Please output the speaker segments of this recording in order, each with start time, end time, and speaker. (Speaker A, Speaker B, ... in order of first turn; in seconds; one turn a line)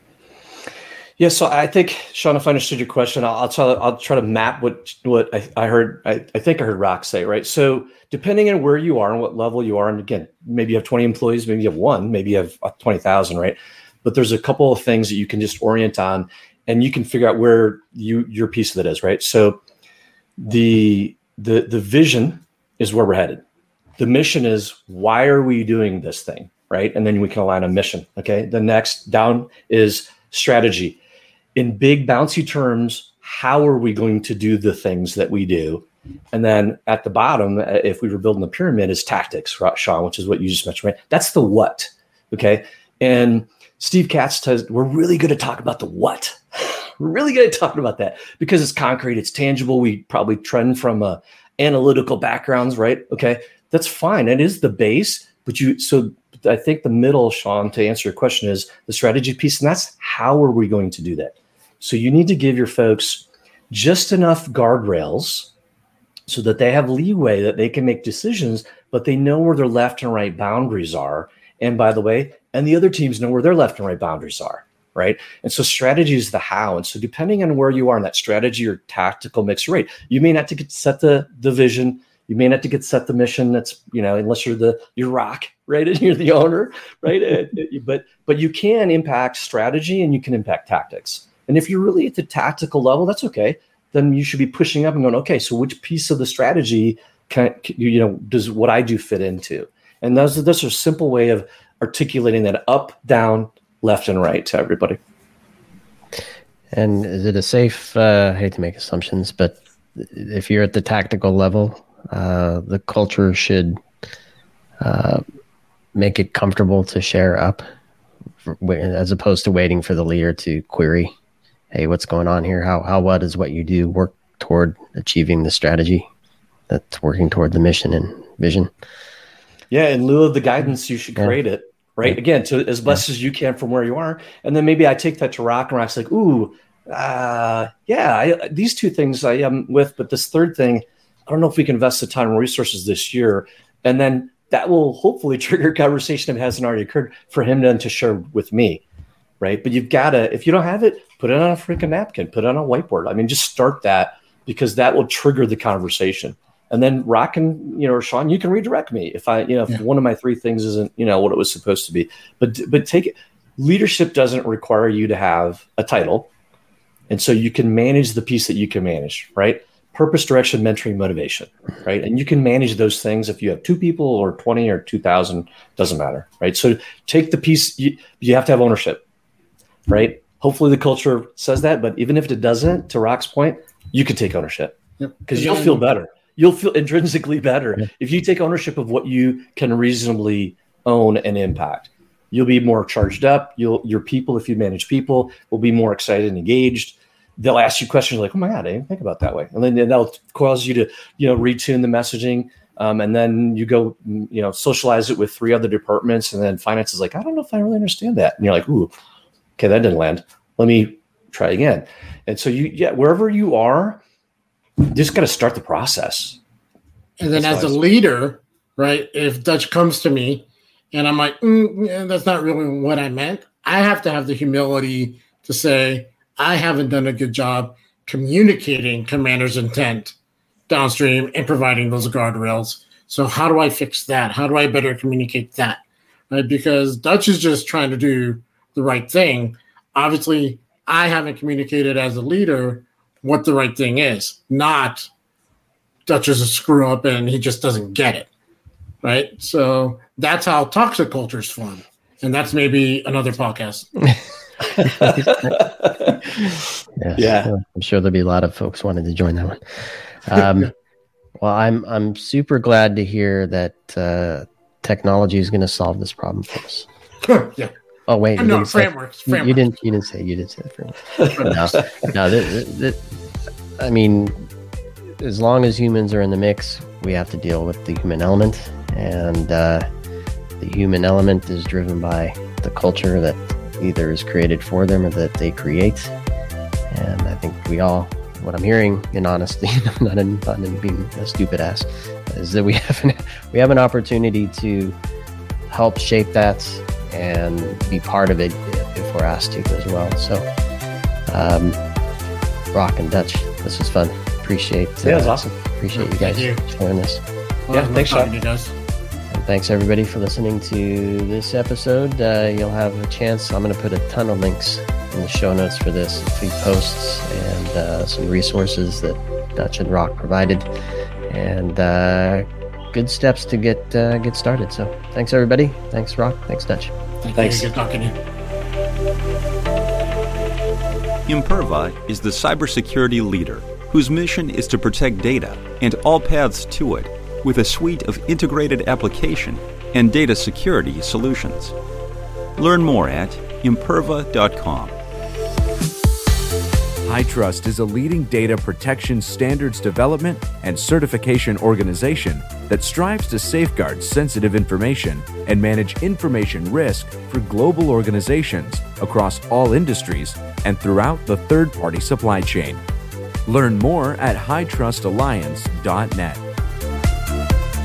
Speaker A: 1.2-19.6
Speaker A: 20.4-23.4
Speaker A: 24.0-31.0
Speaker A: 31.6-65.5
Speaker A: 66.3-105.0
Speaker B: 106.7-113.8
Speaker B: 114.8-115.2
Speaker B: 115.9-117.6
Speaker B: 118.4-121.1
Speaker B: 121.7-126.1
Speaker B: 126.7-128.7
Speaker A: 129.7-148.8
Speaker A: 149.4-166.3
Speaker A: 167.1-179.0
Speaker A: 179.9-208.9
Speaker C: 185.0-185.8
Speaker A: 209.6-214.0
Speaker A: 214.8-216.4
Speaker C: 217.2-230.1
Speaker A: 217.3-217.8
Speaker C: 230.7-245.1
Speaker C: 246.1-248.3
Speaker C: 249.0-253.9
Speaker B: 254.8-255.6
Speaker A: 254.8-256.3
Speaker B: 257.0-260.7
Speaker A: 257.2-257.5
Speaker B: 261.4-266.9
Speaker C: 267.2-267.7
Speaker B: 268.1-273.0
Speaker C: 268.4-269.6
Speaker A: 271.2-271.8
Speaker B: 273.8-274.5
Speaker B: 275.2-279.9
Speaker B: 280.6-286.1
Speaker B: 286.9-294.9
Speaker B: 295.7-300.4
Speaker B: 301.3-301.8
Speaker B: 302.7-307.2
Speaker A: 305.0-305.4
Speaker C: 305.9-306.6
Speaker C: 307.7-308.7
Speaker A: 307.7-308.3
Speaker B: 309.3-320.6
Speaker B: 321.3-326.9
Speaker C: 327.2-328.1
Speaker A: 327.3-327.7
Speaker D: 331.3-341.7
Speaker D: 342.6-344.9
Speaker E: 347.1-362.8
Speaker E: 363.4-366.4